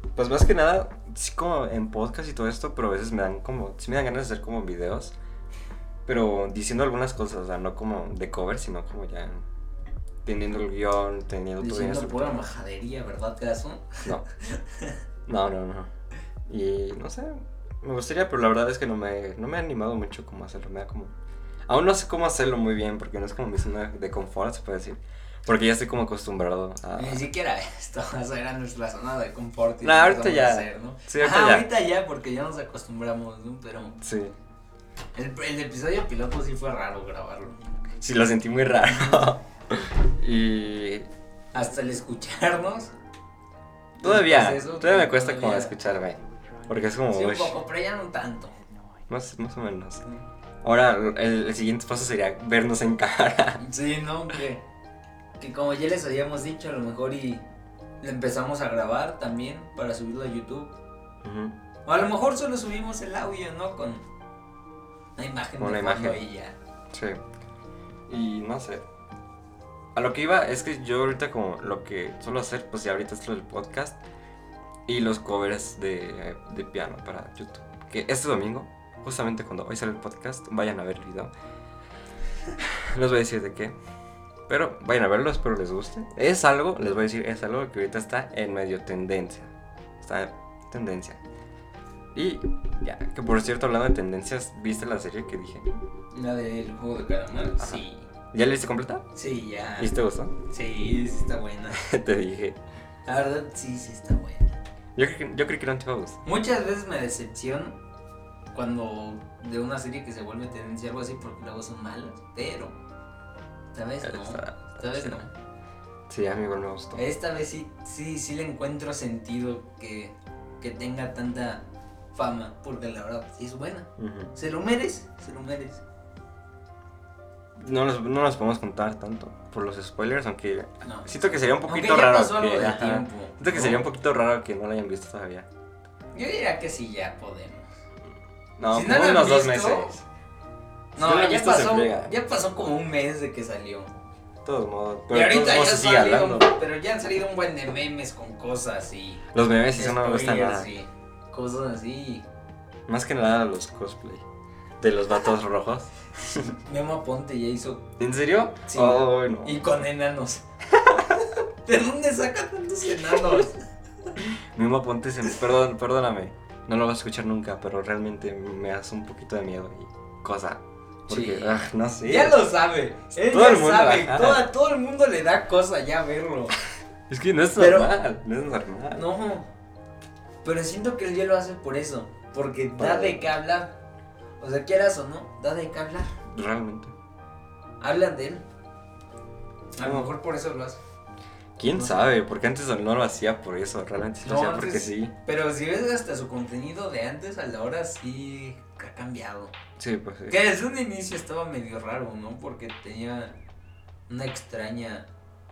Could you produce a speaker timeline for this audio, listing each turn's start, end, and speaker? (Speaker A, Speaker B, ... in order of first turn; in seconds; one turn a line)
Speaker A: 0.1-5.1
Speaker A: 6.0-9.4
Speaker A: 10.2-12.5
Speaker B: 11.6-15.0
Speaker A: 15.2-15.9
Speaker A: 16.5-21.1
Speaker A: 21.7-27.3
Speaker B: 26.9-34.0
Speaker A: 29.8-31.7
Speaker A: 34.0-34.3
Speaker B: 35.1-37.6
Speaker A: 38.0-41.1
Speaker B: 38.9-39.3
Speaker B: 41.5-42.9
Speaker B: 44.0-45.8
Speaker A: 44.0-47.6
Speaker B: 47.1-48.5
Speaker A: 49.1-50.0
Speaker A: 50.6-53.6
Speaker B: 53.6-54.6
Speaker B: 55.4-57.5
Speaker B: 58.0-60.7
Speaker A: 61.2-61.5
Speaker B: 61.9-64.0
Speaker B: 65.2-66.5
Speaker A: 65.6-66.2
Speaker A: 66.9-67.2
Speaker A: 68.1-68.8
Speaker A: 69.9-74.0
Speaker A: 74.9-81.3
Speaker A: 82.6-83.7
Speaker A: 84.5-91.2
Speaker A: 92.1-95.7
Speaker B: 96.1-98.1
Speaker A: 97.6-99.0
Speaker B: 99.1-99.9
Speaker A: 99.8-100.3
Speaker B: 100.5-101.8
Speaker A: 101.7-102.6
Speaker B: 103.0-104.5
Speaker A: 105.0-106.2
Speaker B: 106.2-107.8
Speaker B: 108.5-112.7
Speaker B: 113.7-115.3
Speaker A: 114.0-115.2
Speaker A: 116.1-117.0
Speaker B: 117.0-125.8
Speaker A: 124.0-124.3
Speaker A: 127.6-135.5
Speaker B: 130.8-133.8
Speaker B: 136.1-137.7
Speaker A: 138.6-140.0
Speaker B: 138.7-140.0
Speaker A: 140.9-142.1
Speaker B: 140.9-143.9
Speaker A: 144.4-146.6
Speaker B: 145.1-149.2
Speaker A: 149.3-150.7
Speaker B: 149.8-152.2
Speaker A: 152.9-154.2
Speaker A: 154.8-156.5
Speaker B: 156.4-157.9
Speaker A: 158.0-159.6
Speaker B: 158.7-160.4
Speaker A: 160.8-161.3
Speaker B: 161.3-163.6
Speaker A: 164.2-172.5
Speaker B: 171.1-176.6
Speaker A: 173.2-174.5
Speaker A: 177.1-179.0
Speaker B: 177.6-177.9
Speaker B: 178.9-179.5
Speaker B: 180.4-183.8
Speaker A: 182.8-183.3
Speaker B: 184.4-186.2
Speaker A: 186.3-186.9
Speaker B: 187.8-188.4
Speaker B: 189.7-190.8
Speaker A: 189.8-190.1
Speaker A: 191.6-195.1
Speaker B: 191.7-192.0
Speaker B: 194.2-199.5
Speaker A: 199.8-200.4
Speaker B: 200.3-203.3
Speaker B: 204.1-205.1